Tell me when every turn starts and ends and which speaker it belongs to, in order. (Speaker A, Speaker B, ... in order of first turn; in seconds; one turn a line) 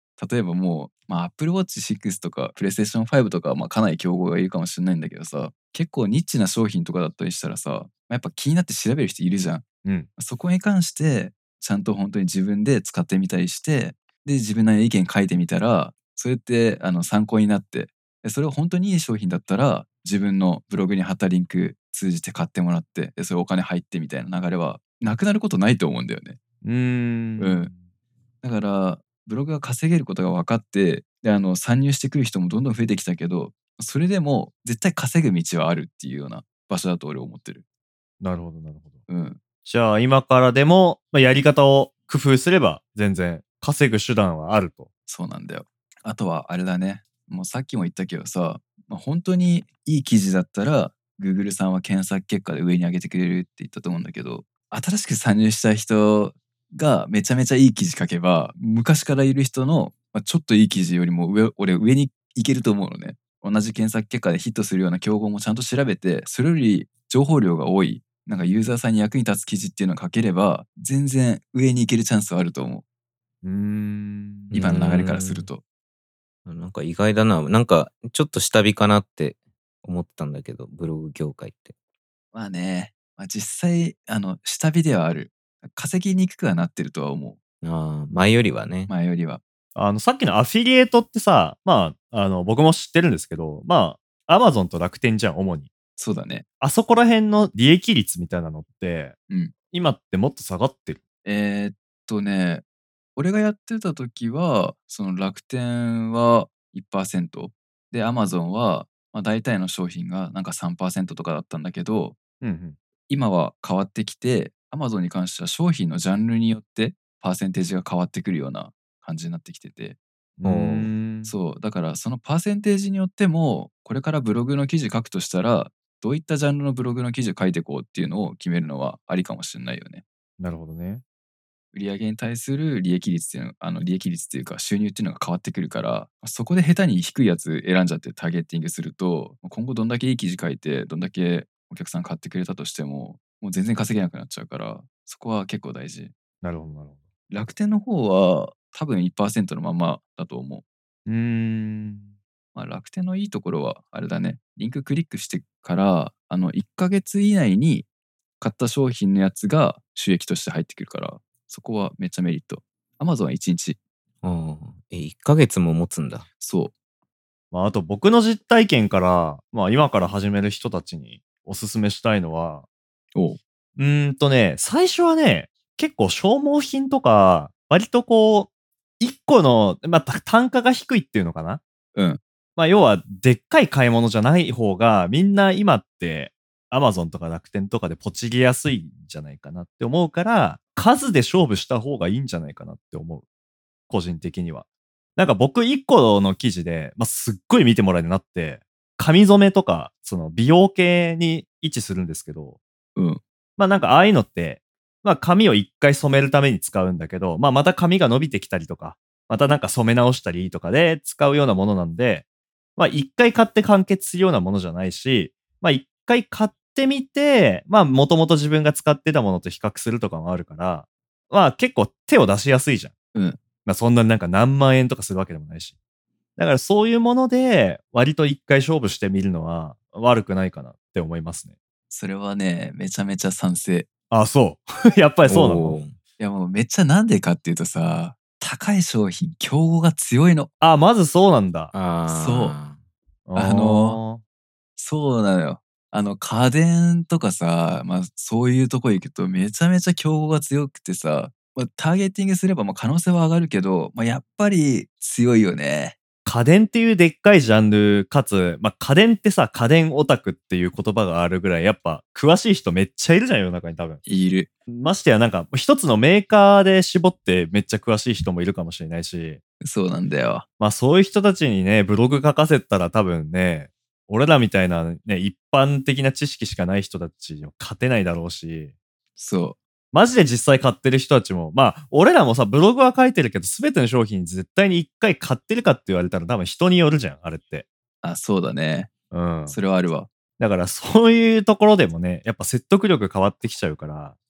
Speaker A: 0.2-9.6
Speaker B: 9.8-10.1
Speaker A: 10.2-26.4
Speaker B: 26.6-27.8
Speaker A: 27.4-27.7
Speaker A: 28.4-37.6
Speaker B: 38.2-39.0
Speaker A: 39.1-39.4
Speaker B: 39.6-44.9
Speaker A: 45.1-72.8
Speaker B: 73.4-74.6
Speaker C: 74.5-75.5
Speaker A: 74.5-75.6
Speaker C: 76.5-81.7
Speaker A: 82.3-87.4
Speaker C: 87.6-88.9
Speaker A: 88.9-89.4
Speaker B: 89.8-95.7
Speaker A: 96.0-96.4
Speaker B: 96.6-99.1
Speaker B: 99.7-101.0
Speaker A: 101.2-102.6
Speaker A: 103.2-112.2
Speaker B: 112.4-112.8
Speaker A: 113.1-120.0
Speaker B: 120.4-121.3
Speaker C: 120.4-120.9
Speaker A: 121.2-130.0
Speaker B: 130.4-131.0
Speaker A: 131.7-146.1
Speaker B: 146.4-147.0
Speaker A: 147.3-150.6
Speaker B: 151.1-152.1
Speaker A: 152.5-157.9
Speaker A: 158.4-163.8
Speaker C: 164.2-166.2
Speaker A: 166.4-166.7
Speaker B: 167.5-172.7
Speaker B: 173.8-181.6
Speaker A: 181.9-182.2
Speaker B: 182.6-193.2
Speaker B: 193.9-194.6
Speaker B: 195.2-202.6
Speaker A: 202.9-203.2
Speaker B: 203.6-212.2
Speaker B: 212.8-222.9
Speaker B: 223.6-225.7
Speaker B: 226.4-231.5
Speaker A: 231.9-233.9
Speaker B: 234.1-235.8
Speaker C: 235.2-235.9
Speaker A: 236.2-240.5
Speaker B: 240.6-241.7
Speaker C: 241.7-242.8
Speaker A: 242.1-242.5
Speaker B: 243.3-244.2
Speaker A: 243.3-244.0
Speaker A: 244.8-256.0
Speaker B: 256.2-264.0
Speaker A: 264.1-264.5
Speaker B: 264.7-269.4
Speaker A: 269.6-270.4
Speaker B: 270.6-278.7
Speaker A: 279.2-279.6
Speaker B: 279.9-287.6
Speaker A: 288.0-288.9
Speaker B: 289.1-289.6
Speaker A: 289.5-290.1
Speaker B: 290.4-294.1